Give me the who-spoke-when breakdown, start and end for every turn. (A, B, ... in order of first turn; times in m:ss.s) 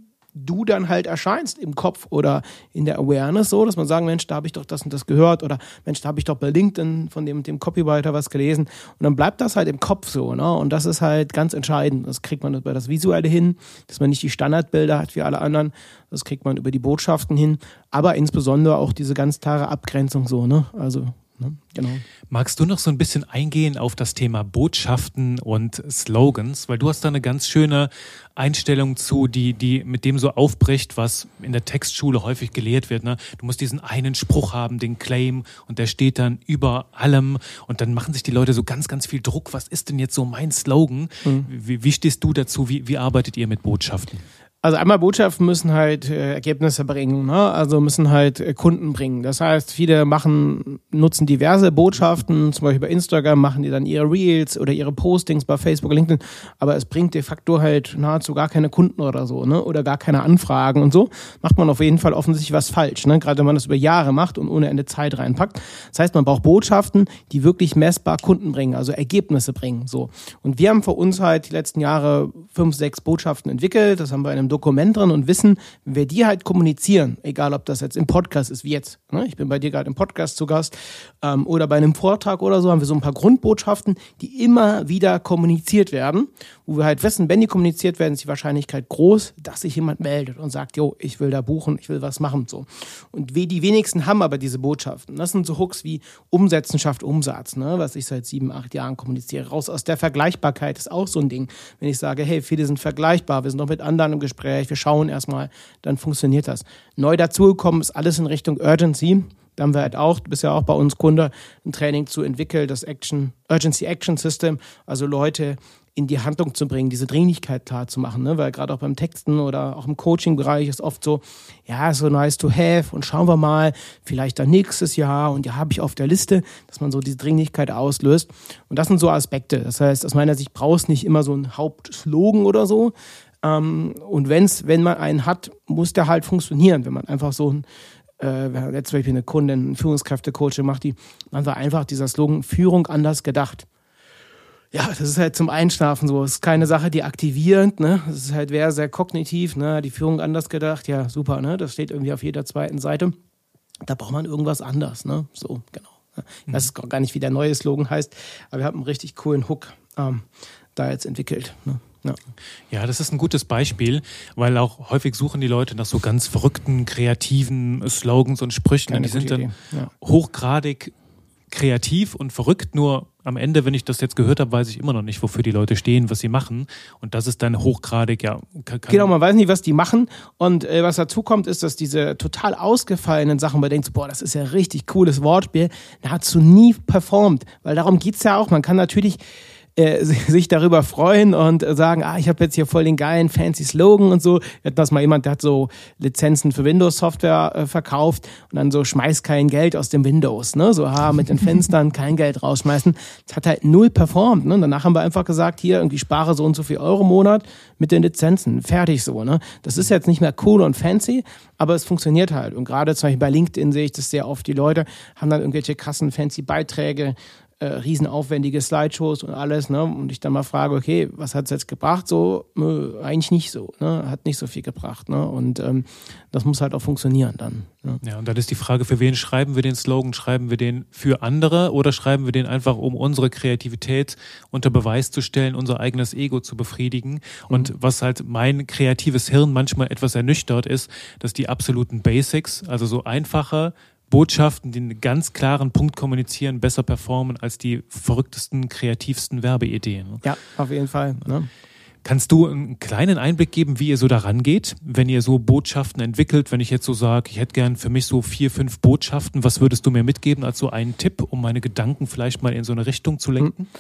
0:00.4-0:22.0 A
0:22.3-0:44.2 B
0:44.6-2:17.6 A
2:18.2-2:23.7 A
2:24.7-2:33.2 A
2:33.8-2:42.2 A
2:42.7-2:49.5 B
2:48.9-2:49.9 A
2:50.0-2:50.9 B
2:51.5-2:59.1 B
2:58.9-3:09.2 A
3:09.8-3:48.0 A
3:48.0-4:10.2 B
4:10.2-4:11.5 A
4:12.0-4:23.7 B